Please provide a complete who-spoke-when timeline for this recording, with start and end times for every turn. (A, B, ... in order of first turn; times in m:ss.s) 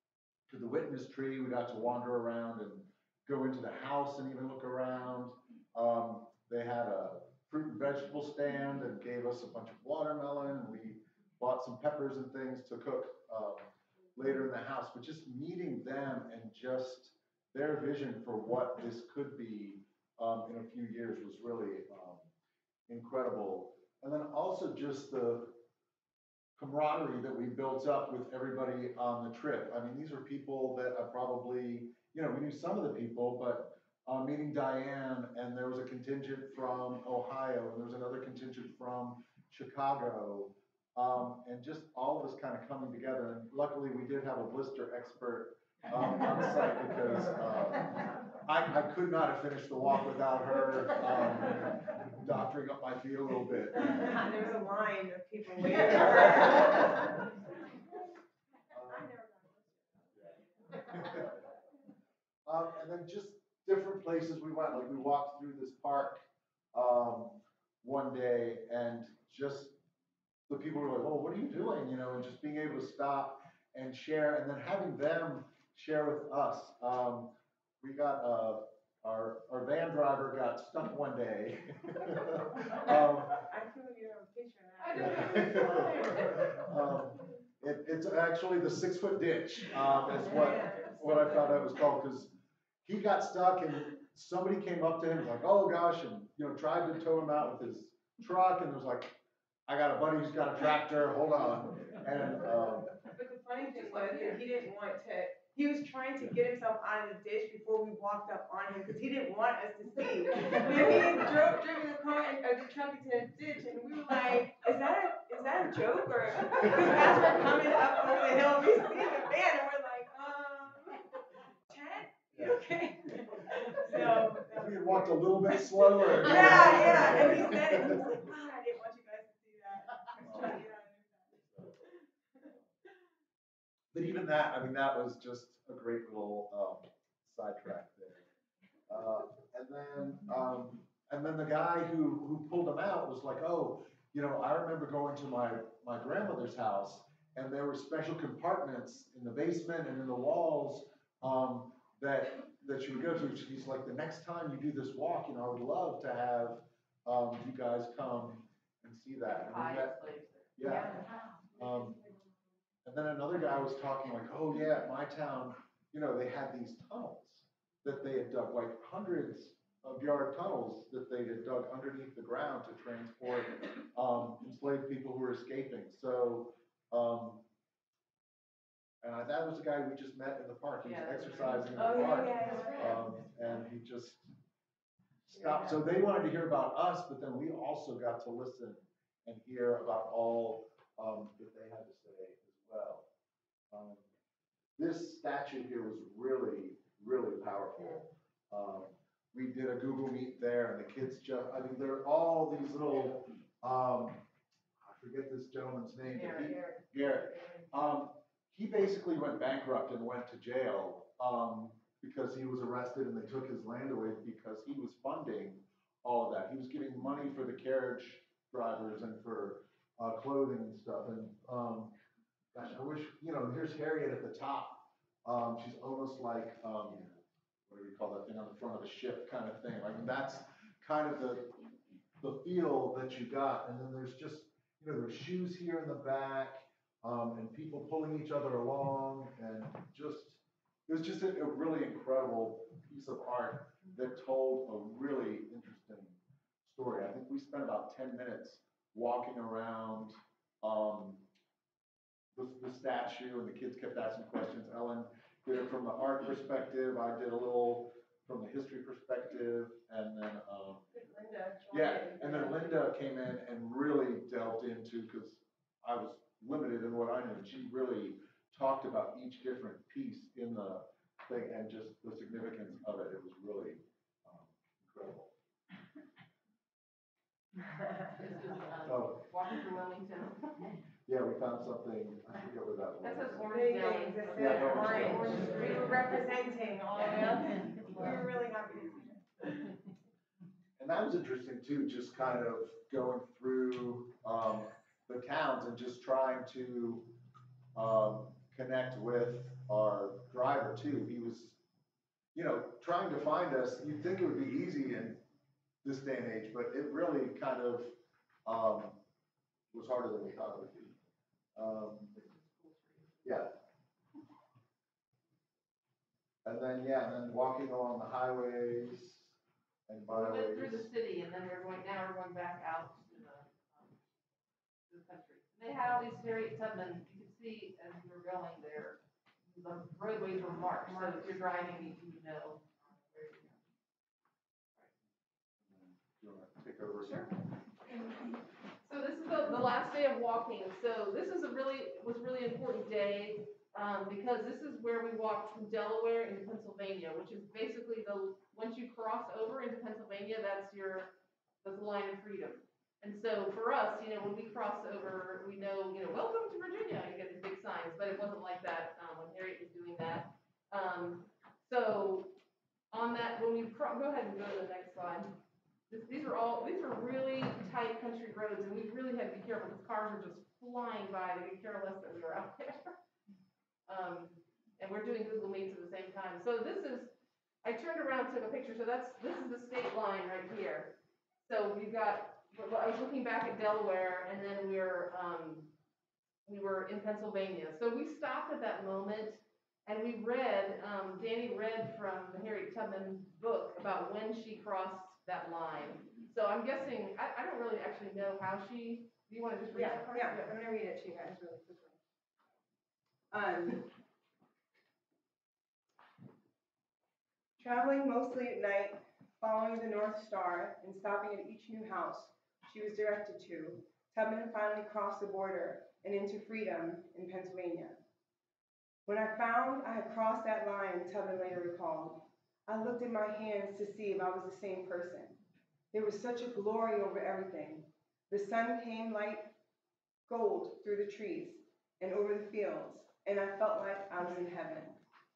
0:00.5-0:22.3 A
0:22.9-0:25.6 A
0:26.6-0:54.0 A
0:53.9-0:57.2 B
0:58.7-0:59.1 A
0:58.9-1:00.4 B
1:00.8-1:01.4 A
1:02.4-1:06.2 A
1:06.7-1:09.8 A
1:10.5-1:23.4 A
1:23.5-1:26.7 B
1:24.8-1:26.5 C
1:24.9-1:32.3 A
1:30.2-1:31.4 B
1:32.8-1:43.0 A
1:43.1-2:01.1 B
1:43.6-1:44.5 C
2:01.7-2:11.4 B
2:02.3-2:02.6 A
2:03.8-2:08.0 A
2:10.2-2:10.6 A
2:11.4-2:11.7 A
2:13.9-2:18.2 A
2:18.9-2:40.0 A
2:39.3-2:40.6 C
2:40.6-2:42.0 A
2:42.8-2:57.4 A
2:59.0-3:04.3 A
3:00.8-3:02.9 C
3:01.7-3:03.0 B
3:05.3-3:13.0 A
3:13.7-3:14.1 A
3:14.8-3:24.2 A
3:24.8-3:42.0 A
3:26.2-3:26.5 C
3:42.5-3:47.1 A
3:47.7-3:51.6 A
3:52.2-4:11.2 A
4:12.3-4:20.9 A
4:20.9-4:22.6 B
4:21.7-4:35.3 A
4:38.1-4:40.7 C
4:38.8-4:39.3 A
4:41.0-4:43.5 A
4:43.0-4:46.2 C
4:43.5-4:49.2 B
4:44.3-4:45.9 A
4:46.9-4:47.9 C
4:50.8-4:57.1 A
4:57.7-5:01.6 A
5:02.3-5:05.2 A
5:05.8-5:09.0 A
5:09.7-5:10.9 A
5:11.6-5:12.2 A
5:12.1-5:13.4 C
5:13.2-5:13.5 A
5:16.4-5:19.3 A
5:19.9-5:20.9 A
5:20.1-5:24.0 C
5:24.9-5:29.0 C
5:29.5-5:33.6 C
5:35.6-5:37.3 A
5:37.0-5:37.3 C
5:38.8-6:02.4 C
6:02.9-6:05.3 C
6:05.9-6:13.0 C
6:13.9-6:17.1 C
6:17.6-6:25.7 C
6:26.4-6:40.5 C
6:39.7-6:42.0 B
6:43.3-6:43.9 B
6:47.6-6:58.0 B
6:59.0-7:05.4 B
7:05.9-7:09.6 B
7:10.3-7:15.0 B